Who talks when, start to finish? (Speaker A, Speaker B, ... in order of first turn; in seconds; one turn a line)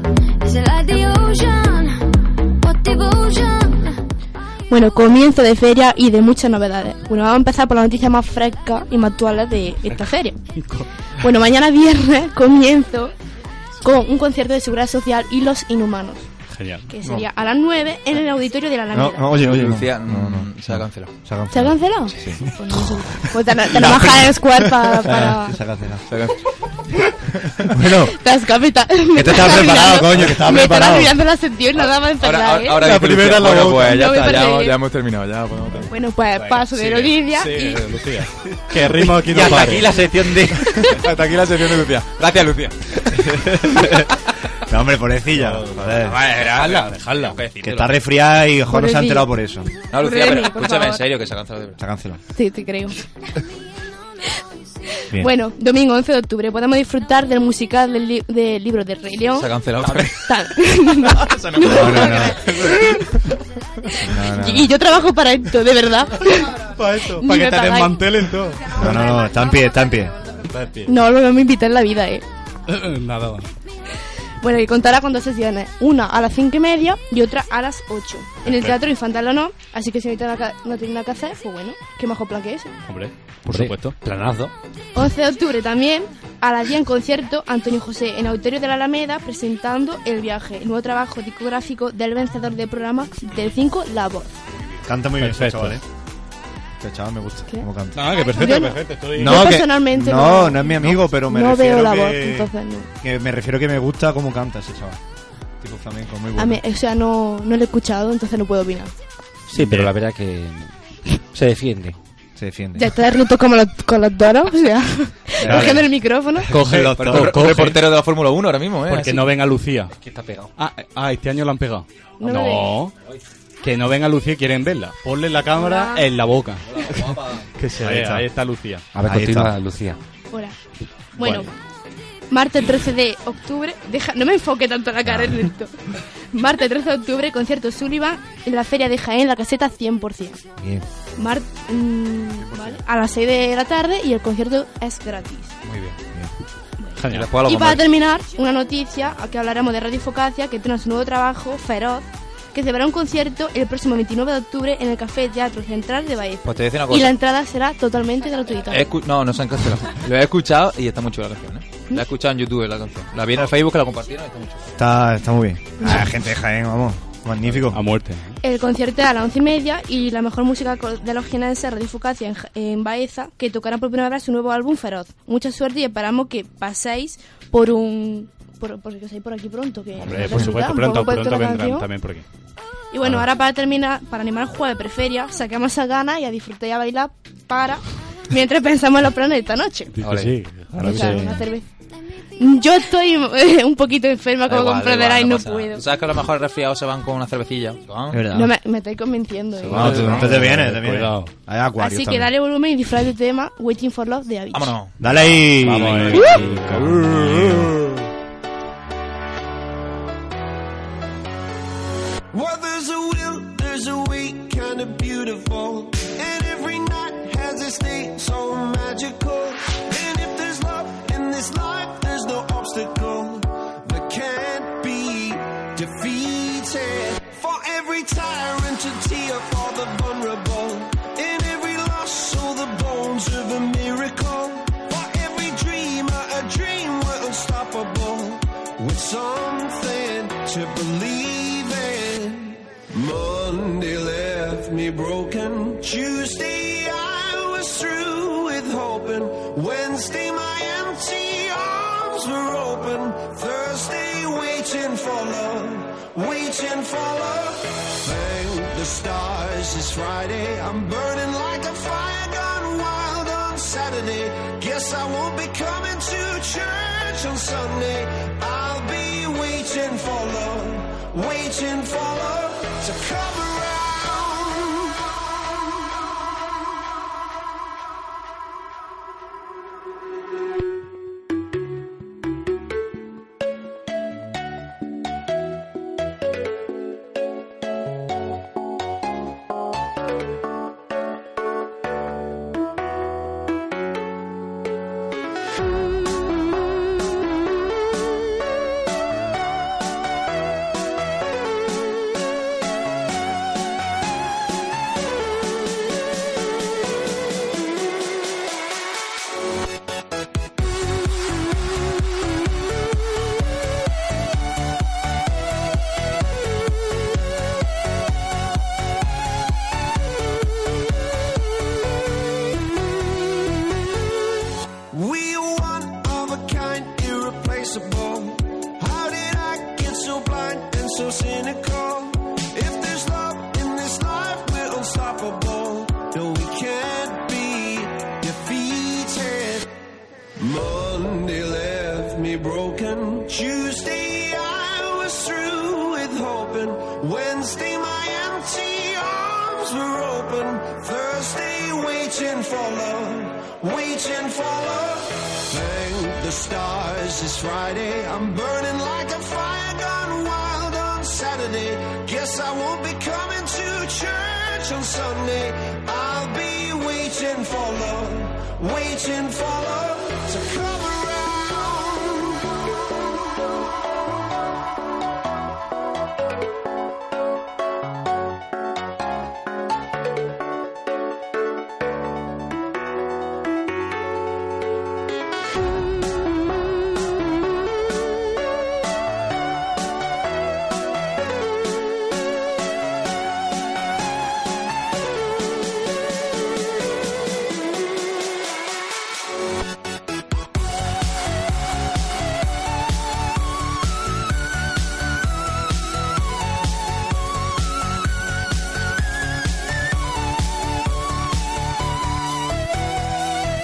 Speaker A: 0.4-4.0
Speaker B: 4.7-10.4
Speaker C: 10.5-10.9
Speaker B: 11.2-13.1
Speaker B: 13.8-16.3
Speaker C: 16.5-16.9
Speaker B: 16.9-19.3
Speaker D: 18.9-26.1
Speaker E: 19.3-21.1
Speaker B: 21.5-25.6
Speaker E: 26.1-26.4
Speaker D: 27.6-28.1
Speaker B: 27.9-32.9
Speaker D: 29.1-31.1
Speaker E: 29.2-30.3
Speaker E: 32.1-35.9
Speaker C: 32.8-34.1
Speaker B: 33.8-34.8
Speaker B: 35.9-37.8
Speaker C: 36.3-40.1
Speaker E: 39.2-41.0
Speaker C: 40.7-42.1
Speaker E: 41.8-43.0
Speaker D: 43.3-43.8
Speaker D: 44.7-46.2
Speaker C: 45.3-47.4
Speaker E: 46.0-48.0
Speaker D: 47.6-49.7
Speaker B: 48.7-49.3
Speaker E: 49.9-51.8
Speaker B: 49.9-51.0
Speaker D: 51.8-52.2
Speaker B: 52.3-53.0
Speaker B: 55.1-63.3
Speaker E: 59.3-60.2
Speaker E: 61.1-62.5
Speaker D: 61.6-62.5
Speaker B: 64.0-68.1
Speaker D: 64.1-64.7
Speaker C: 66.7-68.8
Speaker D: 68.8-70.2
Speaker B: 68.9-69.2
Speaker C: 70.5-70.9
Speaker B: 70.9-72.2
Speaker C: 72.7-73.5
Speaker B: 74.4-82.7
Speaker C: 78.4-78.8
Speaker C: 82.9-84.0
Speaker F: 83.5-84.5
Speaker B: 84.9-94.3
Speaker D: 94.8-95.8
Speaker C: 95.2-95.8
Speaker D: 96.8-98.1
Speaker B: 97.5-102.9
Speaker C: 97.9-99.5
Speaker D: 99.1-102.5
Speaker D: 103.0-105.0
Speaker D: 105.6-106.6
Speaker B: 106.3-108.9
Speaker F: 109.5-112.0
Speaker C: 109.5-109.9
Speaker D: 112.3-112.9
Speaker B: 112.8-116.5
Speaker E: 115.4-115.7
Speaker D: 115.4-115.8
Speaker C: 115.5-115.8
Speaker D: 116.5-117.5
Speaker C: 116.5-117.8
Speaker E: 116.9-119.3
Speaker C: 118.9-119.9
Speaker F: 120.0-120.5
Speaker C: 120.6-122.9
Speaker B: 122.2-122.7
Speaker C: 123.6-128.9
Speaker B: 125.5-126.0
Speaker E: 126.8-127.1
Speaker D: 127.8-128.2
Speaker F: 128.9-130.0
Speaker D: 129.0-129.5
Speaker B: 130.3-130.6
Speaker B: 131.2-131.5
Speaker B: 132.3-135.7
Speaker B: 136.3-140.4
Speaker B: 141.2-145.5
Speaker E: 145.6-146.0
Speaker B: 146.8-158.9
Speaker C: 147.0-147.3
Speaker E: 147.1-147.8
Speaker E: 156.4-157.1
Speaker E: 158.7-164.7
Speaker D: 164.8-167.8
Speaker C: 167.7-168.3
Speaker B: 168.4-181.9
Speaker C: 180.0-182.2
Speaker B: 182.9-189.9
Speaker C: 189.9-191.4
Speaker E: 190.0-190.4
Speaker D: 190.8-191.3
Speaker B: 190.8-191.7
Speaker B: 192.4-195.8
Speaker E: 194.5-198.2
Speaker D: 198.1-198.5
Speaker B: 198.3-200.2
Speaker C: 199.7-201.3
Speaker D: 199.7-202.3
Speaker B: 201.8-204.7
Speaker E: 204.5-206.1
Speaker D: 205.0-207.7
Speaker C: 205.6-207.7
Speaker F: 206.2-206.9
Speaker G: 212.3-275.0
Speaker G: 324.9-339.7
Speaker G: 340.4-372.5